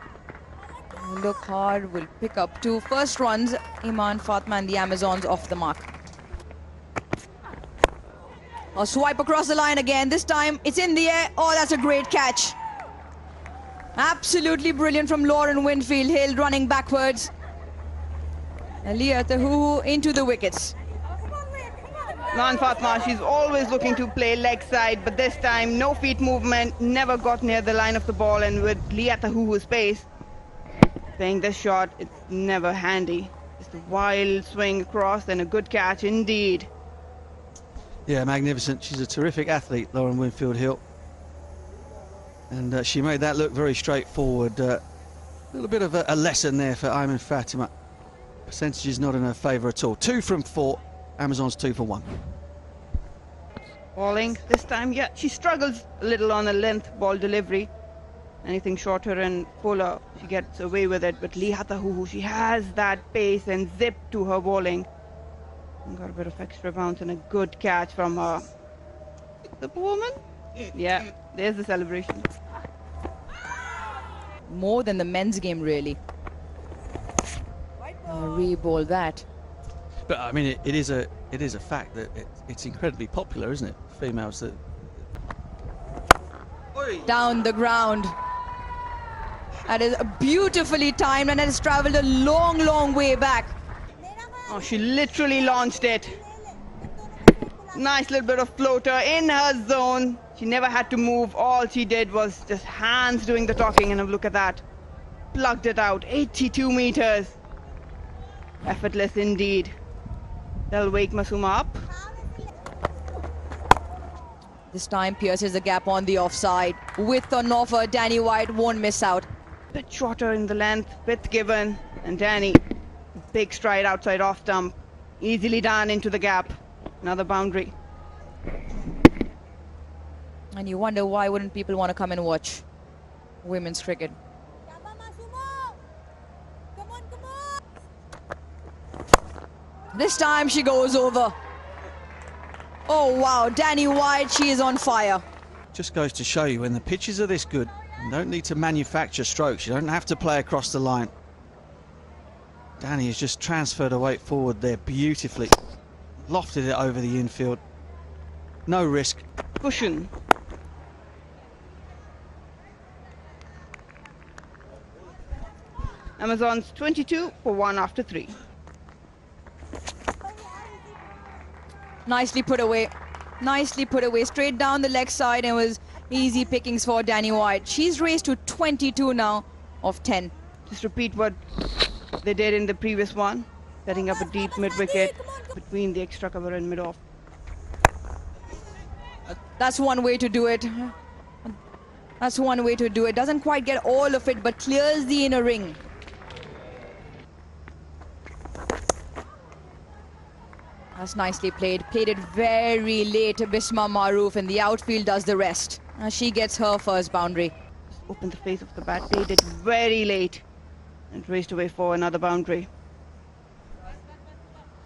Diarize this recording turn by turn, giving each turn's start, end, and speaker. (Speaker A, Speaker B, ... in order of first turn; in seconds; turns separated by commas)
Speaker A: 0.9-5.9, Speaker A: 8.7-12.6, Speaker A: 13.9-17.3, Speaker A: 18.8-20.8, Speaker B: 22.3-30.1, Speaker B: 31.2-36.7, Speaker C: 38.1-40.8, Speaker C: 42.5-44.8, Speaker C: 45.5-47.7, Speaker C: 48.5-52.1, Speaker B: 53.9-57.7, Speaker B: 58.4-64.9, Speaker B: 65.8-68.5, Speaker B: 69.6-70.2, Speaker B: 70.7-72.3, Speaker A: 74.5-76.0, Speaker A: 78.0-79.2, Speaker C: 80.1-84.6, Speaker A: 87.0-88.1, Speaker A: 89.7-93.5, Speaker B: 94.5-96.2, Speaker B: 97.7-104.6, Speaker B: 105.3-107.3, Speaker B: 108.6-109.7, Speaker B: 110.7-111.9, Speaker A: 114.7-119.3, Speaker B: 119.7-122.6, Speaker B: 123.3-127.7, Speaker A: 130.5-132.6, Speaker A: 133.4-134.2, Speaker A: 139.9-141.3, Speaker A: 142.9-145.2, Speaker C: 145.7-151.1, Speaker C: 152.8-155.6, Speaker C: 156.3-157.6, Speaker C: 158.7-159.2, Speaker B: 159.6-160.1, Speaker B: 166.2-168.4, Speaker A: 172.1-180.3, Speaker B: 180.7-181.4, Speaker B: 182.2-187.0, Speaker A: 189.3-190.9, Speaker A: 192.2-195.8, Speaker A: 200.9-207.5, Speaker B: 207.9-210.4, Speaker B: 211.1-212.7